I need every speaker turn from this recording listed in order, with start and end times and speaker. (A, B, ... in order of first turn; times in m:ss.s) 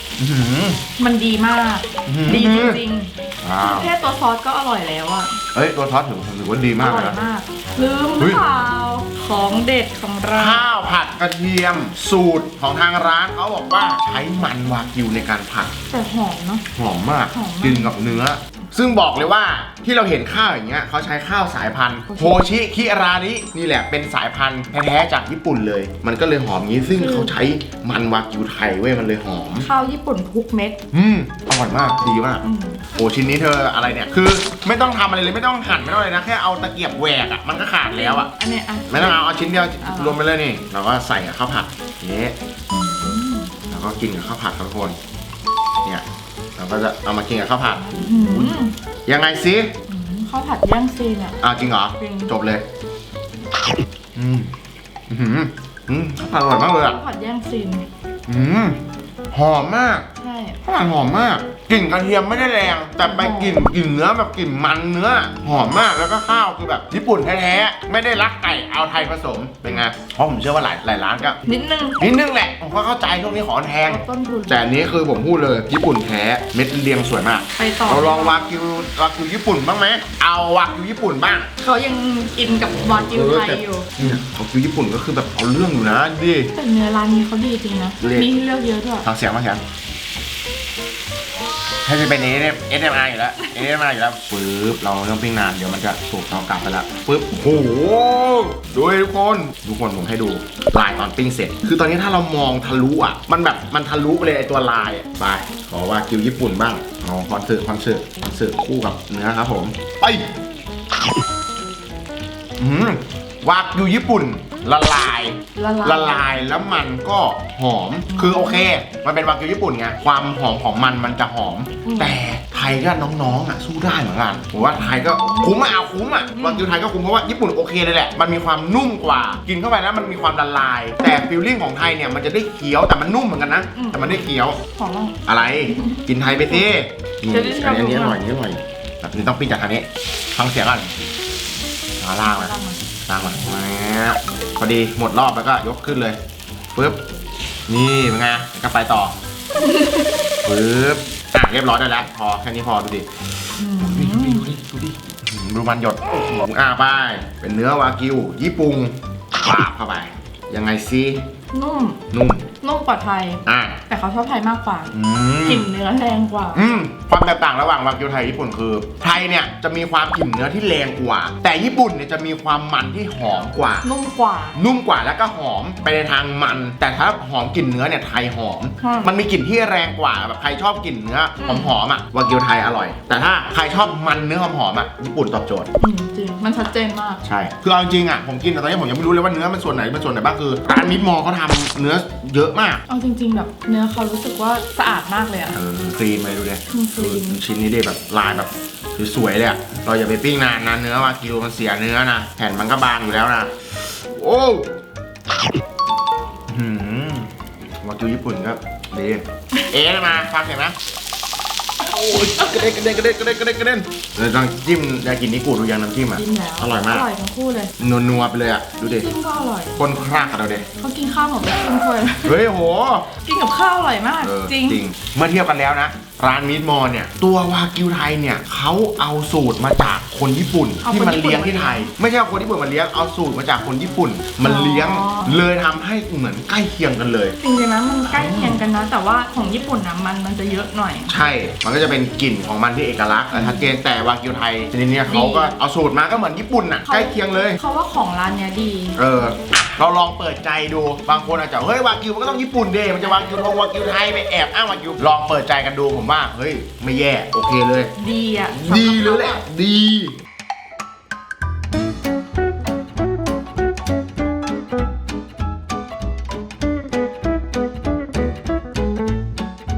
0:00.2-0:00.8 A
0:01.0-0:05.4 B
0:02.0-0:02.8 A
0:03.4-0:03.9 A
0:05.5-0:07.2 A
0:06.8-0:10.6 B
0:10.3-0:15.7 A
0:15.9-0:16.6 B
0:16.7-0:29.7 A
0:17.3-0:18.2 B
0:22.1-0:22.4 B
0:26.9-0:27.4 B
0:29.6-0:30.8 B
0:30.9-0:38.3 A
0:32.4-0:32.8 B
0:37.9-0:40.2 B
0:38.9-0:42.3 A
0:42.7-0:43.5 B
0:43.7-0:45.0 A
0:46.6-0:49.7 A
0:47.7-0:48.7 B
0:49.9-0:51.4 B
0:51.4-0:52.6 A
0:52.0-0:52.3 B
0:54.2-0:54.5 A
0:55.1-0:57.0 A
0:56.8-0:57.9 B
0:58.3-0:58.8 A
0:59.3-1:00.0 A
1:00.2-1:00.6 B
1:00.6-1:11.4 A
1:03.0-1:03.7 B
1:11.4-1:12.0 B
1:12.0-1:21.5 A
1:13.9-1:14.8 B
1:17.5-1:18.4 B
1:21.6-1:24.2 B
1:22.8-1:26.5 A
1:26.5-1:29.0 B
1:28.0-1:28.3 A
1:29.0-1:29.6 A
1:31.8-1:50.2 A
1:33.4-1:33.7 B
1:52.6-2:14.6 A
1:55.6-1:56.3 B
1:58.1-1:58.7 B
2:01.8-2:02.2 B
2:04.6-2:05.6 B
2:06.3-2:06.8 B
2:13.7-2:16.7 B
2:15.2-2:20.9 A
2:17.3-2:18.2 B
2:22.0-2:22.5 A
2:22.2-2:22.8 B
2:23.1-2:26.2 A
2:26.7-2:27.0 A
2:27.7-2:29.1 A
2:29.6-2:30.1 B
2:30.4-2:41.2 A
2:33.6-2:34.5 B
2:41.5-2:42.0 B
2:42.1-2:42.5 A
2:42.6-2:46.6 B
2:43.4-2:43.8 A
2:44.9-2:45.7 A
2:46.5-2:53.9 A
2:53.8-2:54.6 B
2:54.5-3:05.7 A
2:58.8-2:59.1 B
3:01.4-3:01.8 B
3:05.8-3:07.2 B
3:07.2-3:12.8 A
3:12.9-3:15.6 B
3:15.5-3:24.7 A
3:16.7-3:17.4 B
3:26.5-3:27.3 A
3:27.8-3:30.7 A
3:31.8-3:37.1 A
3:36.1-3:37.7 B
3:37.8-3:39.1 A
3:39.0-3:39.8 B
3:39.8-3:40.7 A
3:40.8-3:42.4 B
3:42.2-3:43.1 A
3:43.2-3:44.8 B
3:44.2-3:57.4 A
3:50.8-3:51.9 B
3:54.4-3:55.4 B
3:57.4-4:01.1 B
3:58.1-3:58.6 A
4:01.1-4:07.6 A
4:03.3-4:03.7 B
4:05.0-4:05.5 B
4:06.8-4:09.0 B
4:09.0-4:17.9 A
4:18.0-4:19.4 B
4:18.5-4:20.1 A